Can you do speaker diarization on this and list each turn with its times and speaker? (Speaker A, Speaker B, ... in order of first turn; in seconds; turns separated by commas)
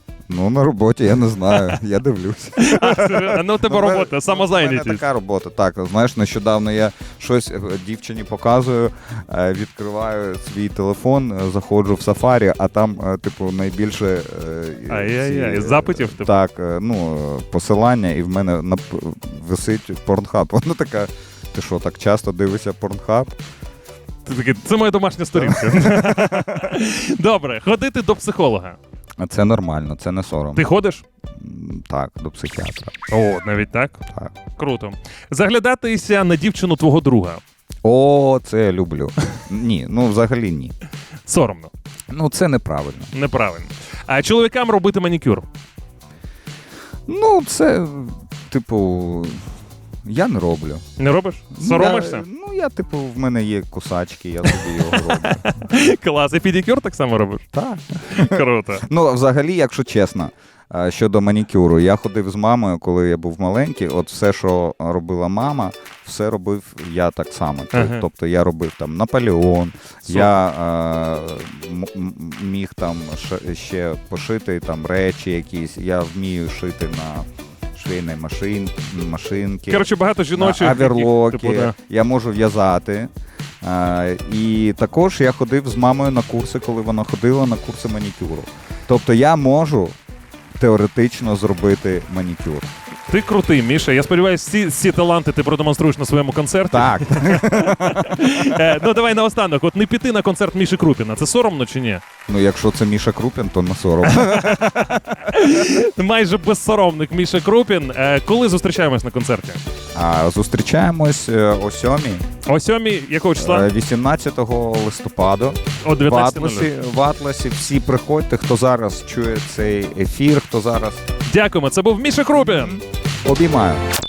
Speaker A: 0.3-23.4, Speaker B: 2.6-5.0, Speaker B: 14.9-16.3, Speaker B: 24.2-28.8, Speaker A: 25.4-26.8, Speaker A: 29.2-30.6, Speaker B: 30.6-31.1, Speaker A: 31.3-32.9, Speaker B: 33.1-34.0, Speaker B: 34.6-37.4, Speaker A: 37.9-40.7, Speaker B: 41.2-41.7, Speaker A: 42.1-43.1, Speaker B: 43.1-45.5, Speaker A: 47.1-49.4, Speaker A: 50.0-50.8, Speaker B: 51.0-52.2, Speaker A: 51.5-55.6, Speaker B: 54.5-57.5, Speaker A: 57.5-83.1, Speaker B: 58.1-58.8, Speaker B: 67.7-68.0, Speaker B: 70.1-70.3, Speaker B: 79.7-81.7, Speaker A: 83.6-90.0, Speaker A: 90.6-92.7, Speaker B: 93.1-102.0, Speaker A: 96.7-98.6, Speaker A: 102.3-105.6, Speaker B: 104.1-109.6, Speaker A: 110.0-112.2, Speaker B: 112.5-113.7, Speaker A: 113.4-121.0, Speaker B: 115.8-116.7, Speaker B: 121.3-122.8, Speaker A: 122.3-123.8